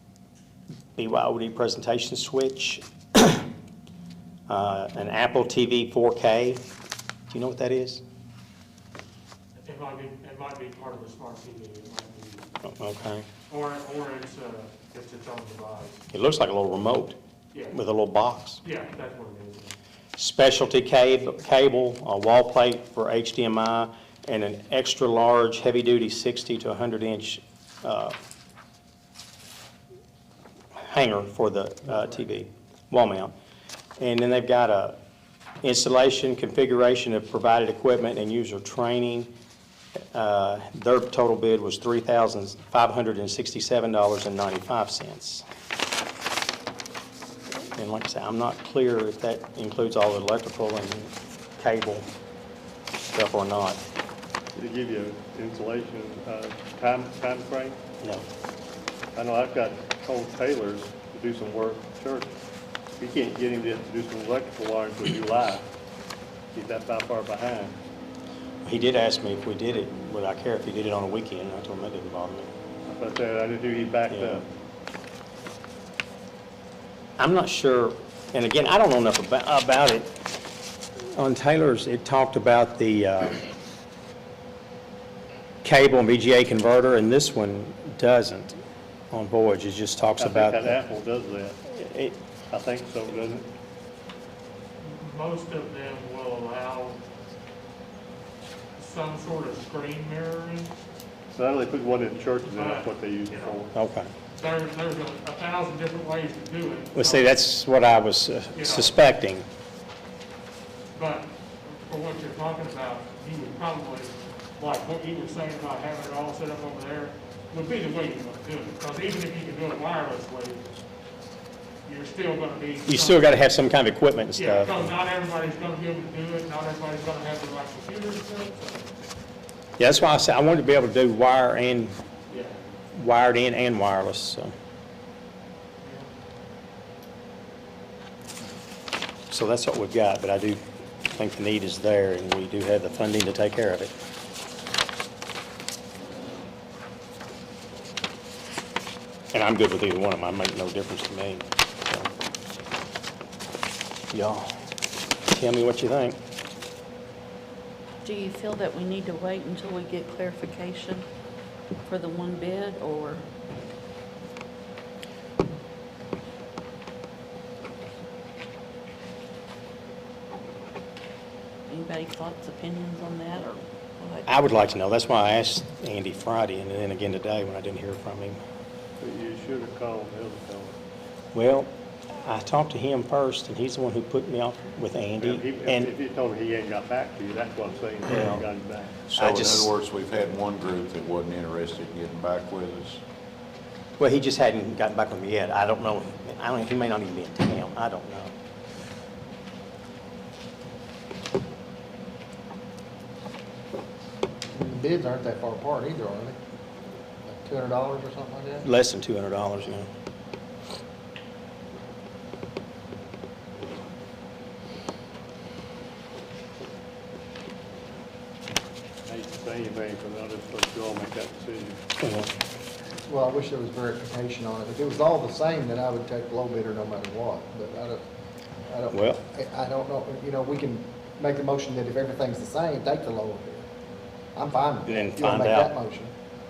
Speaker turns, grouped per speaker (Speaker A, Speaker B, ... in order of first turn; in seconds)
Speaker A: 1.0-3.5, 4.5-6.6, 7.3-8.0, 12.6-13.3, 16.1-17.2, 17.7-18.6, 20.2-28.2, 30.9-33.3, 34.0-35.0, 35.6-39.3, 40.1-45.4, 47.7-52.1, 53.1-53.8, 58.0-58.3, 68.7-72.5, 74.1-74.4, 77.2-80.1, 81.1-83.4, 85.6-88.6, 89.1-90.8, 91.7-92.2, 103.7-104.1, 107.0-109.5, 122.9-124.9, 129.8-131.9, 132.9-134.5, 139.3-140.6, 141.1-143.9, 149.3-152.1, 154.1-154.5, 155.3-156.2, 174.3-178.4, 181.3-185.9, 188.1-188.4, 189.1-189.7, 194.0-198.3, 208.6-209.9, 222.0-222.3, 228.9-229.2, 234.9-235.7
Speaker B: 9.6-12.5, 13.5-16.0, 18.6-19.7, 94.8-97.0, 98.8-100.7, 102.5-103.7, 104.4-107.3, 108.5-109.0, 110.9-120.8, 121.9-123.3, 124.3-128.9, 132.3-132.6, 135.8-136.1
Speaker C: 54.6-57.8, 59.1-62.3, 63.0-65.7, 66.5-67.8, 72.9-74.5, 90.2-91.6, 92.5-93.5, 101.3-103.7, 179.0-180.8, 185.2-189.0, 219.1-221.8
Speaker D: 158.0-161.1, 161.9-163.2, 171.7-174.3
Speaker E: 189.1-193.0
Speaker F: 204.5-206.4, 207.3-208.7, 223.1-228.0, 228.7-233.7, 234.3-236.1